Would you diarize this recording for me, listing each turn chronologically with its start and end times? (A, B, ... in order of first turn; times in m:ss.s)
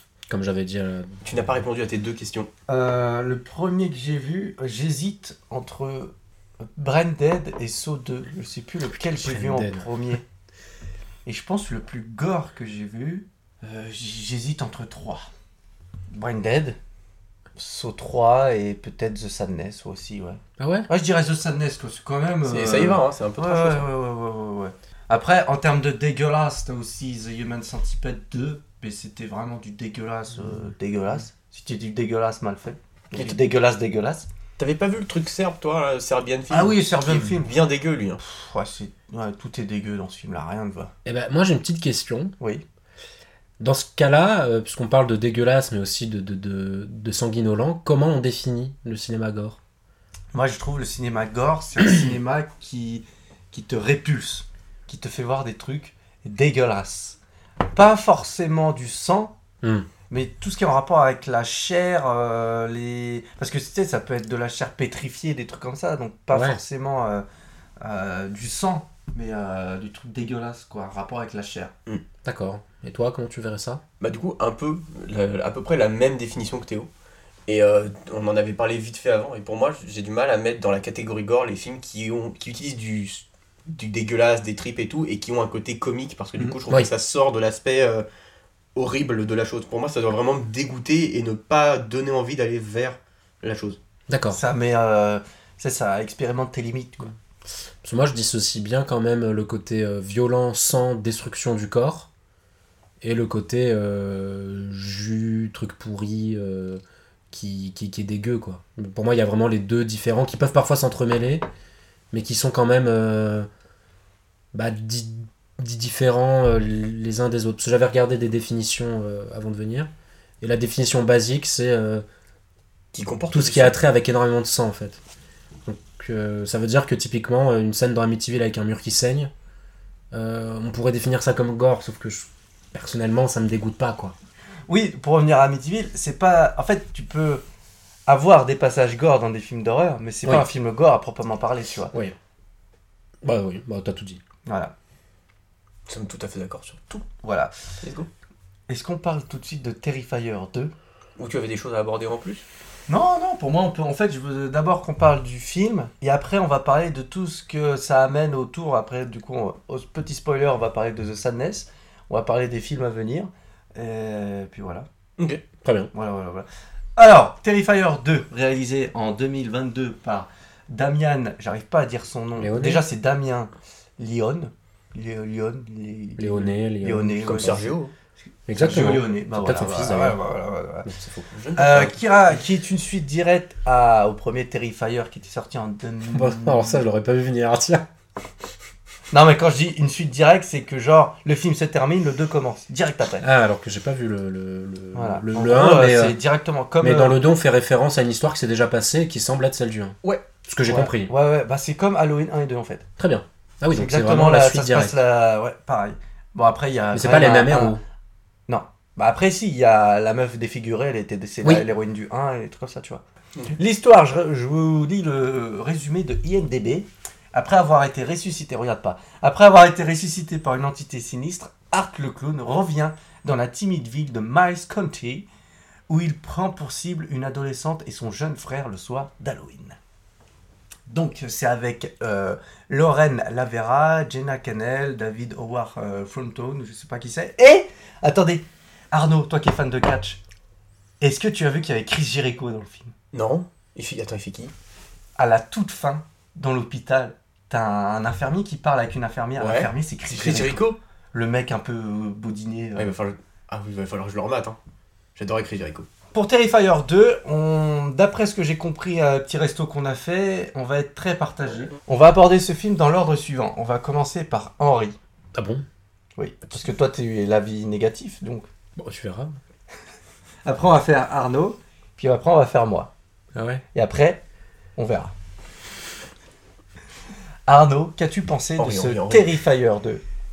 0:00.3-0:01.5 A
0:01.2-0:02.5 B
0:02.7-0:06.1 C
0:06.6-0:10.2 C
0:09.0-0:09.9 A
0:11.3-0:15.3 C
0:16.1-0:16.8 C
0:17.6-0:34.3 C
0:20.6-0:20.9 A
0:22.5-0:23.9 B
0:33.1-0:33.4 B
0:34.6-0:38.2 B
0:36.5-0:37.5 C
0:38.2-0:40.9 C
0:41.0-0:42.3 A
0:43.6-0:49.6 A
0:50.3-0:57.2 C
0:57.7-0:59.3 C
0:59.6-0:59.9 A
1:00.1-1:07.2 C
1:06.3-1:06.6 A
1:07.8-1:11.7 C
1:12.2-1:13.8 A
1:14.0-1:16.9 B
1:17.5-1:28.0 B
1:28.8-1:33.8 B
1:34.1-1:34.4 A
1:34.3-1:37.1 C
1:37.8-1:42.1 A
1:43.0-1:51.4 A
1:52.1-1:53.5 A
1:54.5-2:02.0 A
2:02.9-2:03.8 B
2:03.3-2:05.0 A
2:05.7-2:09.3 A
2:10.1-2:14.2 A
2:14.7-2:17.4 C
2:18.1-2:21.9 C
2:23.2-2:24.2 A
2:24.5-2:24.7 C
2:25.9-2:27.0 B
2:27.0-2:27.5 C
2:27.8-2:28.1 B
2:28.7-2:30.7 C
2:31.2-2:32.4 B
2:32.9-2:44.9 C
2:45.6-2:45.9 A
2:45.9-2:57.7 C
2:52.4-2:52.8 A
2:56.2-2:57.7 A
2:57.3-2:57.9 B
2:58.5-3:00.2 A
2:58.5-3:00.9 C
3:00.9-3:01.2 A
3:01.2-3:02.0 B
3:01.6-3:06.8 C
3:06.1-3:07.8 A
3:09.1-3:13.3 C
3:13.2-3:16.2 A
3:14.9-3:17.2 C
3:16.8-3:21.1 A
3:20.7-3:22.9 C
3:23.0-3:24.9 A
3:23.7-3:27.8 C
3:26.9-3:27.8 A
3:28.5-3:33.0 C
3:33.5-3:45.3 C
3:45.9-3:49.8 C
3:50.9-4:00.2 C
4:01.0-4:02.9 C
4:03.1-4:04.5 B
4:05.2-4:12.9 C
4:09.4-4:10.8 B
4:12.8-4:14.6 B
4:15.2-4:15.9 B
4:16.1-4:25.0 C
4:25.4-4:25.6 A
4:26.2-4:28.5 C
4:28.8-4:29.4 A
4:30.4-4:32.9 C
4:33.3-4:33.6 A
4:33.7-4:34.2 C
4:34.8-4:35.1 C
4:37.5-4:40.0 C
4:38.6-4:39.3 B